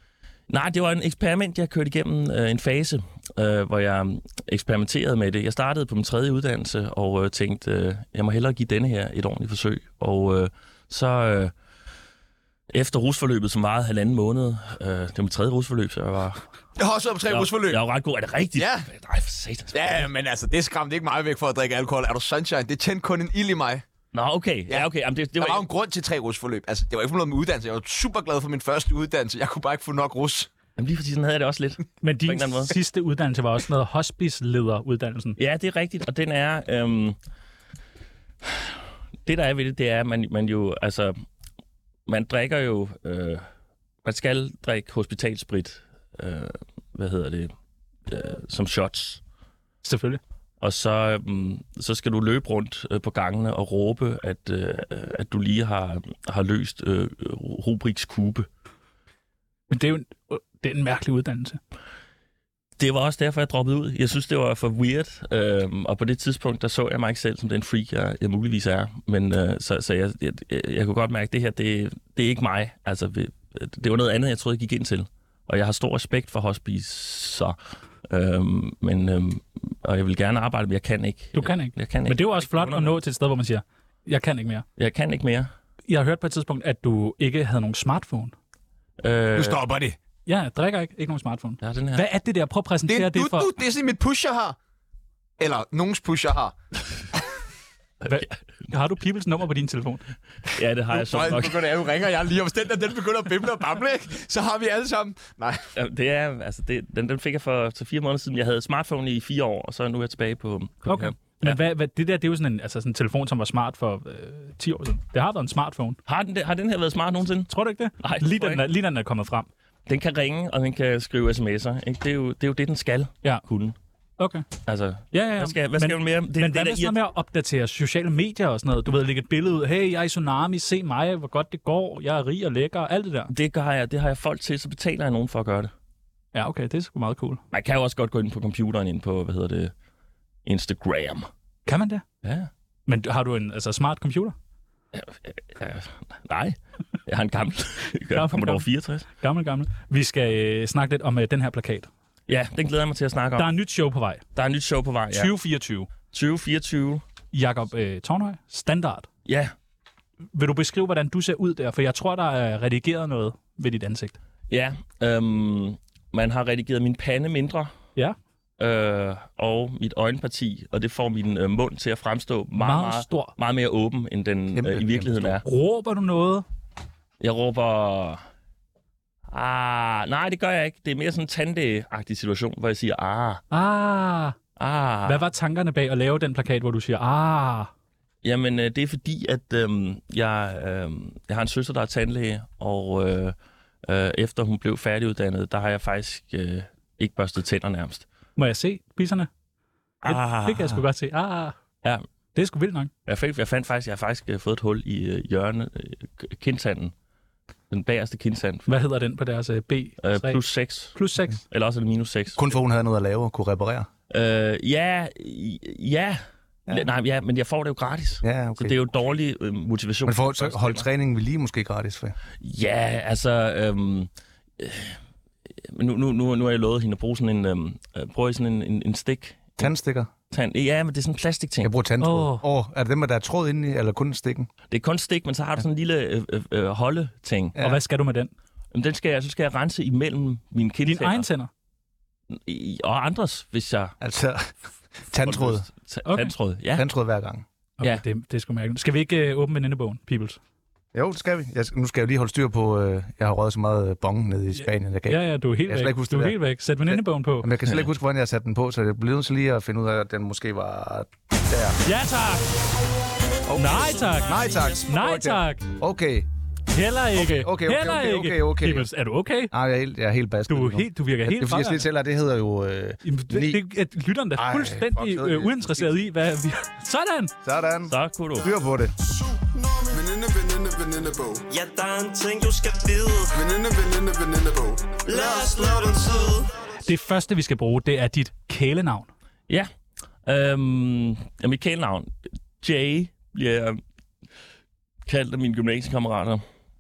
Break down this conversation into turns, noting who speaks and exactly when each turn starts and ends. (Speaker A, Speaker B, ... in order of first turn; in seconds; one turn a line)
Speaker A: 0.5-11.5
Speaker A: 12.7-16.4
Speaker B: 16.8-17.8
Speaker A: 17.3-20.1
Speaker B: 18.6-18.9
Speaker B: 19.7-23.8
Speaker A: 24.1-25.7
Speaker B: 24.7-30.5
Speaker A: 30.8-32.8
Speaker C: 32.0-35.4
Speaker A: 35.4-37.2
Speaker A: 38.4-41.2
Speaker A: 42.1-43.5
Speaker A: 44.0-47.5
Speaker A: 48.1-49.2
Speaker C: 49.8-50.2
Speaker A: 50.6-58.5
Speaker C: 59.7-61.6
Speaker A: 62.8-77.6
Speaker A: 78.1-83.0
Speaker C: 81.3-84.7
Speaker A: 84.8-85.5
Speaker C: 85.9-88.3
Speaker A: 89.0-89.6
Speaker B: 89.3-90.0
Speaker C: 90.3-93.5
Speaker A: 91.6-92.0
Speaker B: 92.9-94.6
Speaker B: 95.4-96.5
Speaker A: 98.0-98.3
Speaker C: 98.0-100.0
Speaker A: 100.5-101.7
Speaker B: 100.9-105.7
Speaker A: 105.8-111.6
Speaker C: 110.9-116.0
Speaker A: 116.1-118.7
Speaker C: 117.5-119.5
Speaker A: 119.9-123.8
Speaker C: 124.2-124.5
Speaker A: 124.7-127.0
Speaker C: 125.1-133.3
Speaker A: 133.3-135.7
Speaker C: 136.3-137.4
Speaker A: 137.5-139.7
Speaker A: 140.4-141.3
Speaker C: 141.7-142.0
Speaker A: 142.2-142.5
Speaker C: 142.9-144.3
Speaker A: 144.9-149.1
Speaker C: 148.1-151.9
Speaker A: 152.3-153.5
Speaker C: 153.4-154.2
Speaker A: 154.3-155.3
Speaker C: 155.1-155.9
Speaker A: 156.1-157.0
Speaker C: 157.3-159.1
Speaker A: 159.3-159.5
Speaker C: 160.3-164.2
Speaker A: 164.5-167.7
Speaker A: 168.6-175.4
Speaker C: 172.6-173.3
Speaker D: 174.6-175.3
Speaker C: 175.4-176.4
Speaker A: 177.2-178.2
Speaker A: 179.3-183.4
Speaker C: 183.5-184.4
Speaker A: 184.6-185.2
Speaker C: 185.1-187.7
Speaker A: 188.2-198.1
Speaker C: 198.4-199.3
Speaker A: 200.0-200.8
Speaker C: 200.1-201.6
Speaker C: 202.3-202.9
Speaker A: 203.1-206.9
Speaker A: 207.7-208.7
Speaker C: 208.7-210.4
Speaker A: 210.0-212.4
Speaker C: 210.9-211.4
Speaker D: 212.4-213.9
Speaker A: 214.1-220.9
Speaker D: 218.2-218.8
Speaker D: 220.1-222.2
Speaker A: 222.4-225.0
Speaker A: 225.6-229.7
Speaker D: 229.6-230.1
Speaker A: 230.3-231.7
Speaker D: 231.6-234.5
Speaker C: 232.0-232.5
Speaker A: 234.7-237.6
Speaker C: 237.6-238.3
Speaker A: 238.7-241.3
Speaker C: 240.8-241.5
Speaker A: 242.3-244.0
Speaker D: 244.0-244.5
Speaker D: 245.1-245.7
Speaker A: 245.2-246.8
Speaker C: 246.1-246.3
Speaker D: 246.8-247.4
Speaker C: 247.8-250.4
Speaker D: 250.9-256.4
Speaker C: 254.6-257.5
Speaker D: 256.9-261.8
Speaker C: 261.8-262.5
Speaker D: 263.5-266.3
Speaker C: 263.5-265.7
Speaker E: 263.8-264.8
Speaker C: 266.7-269.5
Speaker D: 267.1-268.9
Speaker D: 269.5-273.6
Speaker C: 270.5-271.9
Speaker C: 273.0-277.3
Speaker D: 274.4-275.9
Speaker D: 277.4-278.9
Speaker A: 277.9-278.5
Speaker F: 279.4-281.4
Speaker E: 281.5-283.4
Speaker F: 283.4-285.8
Speaker E: 285.1-286.5
Speaker C: 286.9-289.1
Speaker A: 290.3-293.8
Speaker A: 295.1-296.4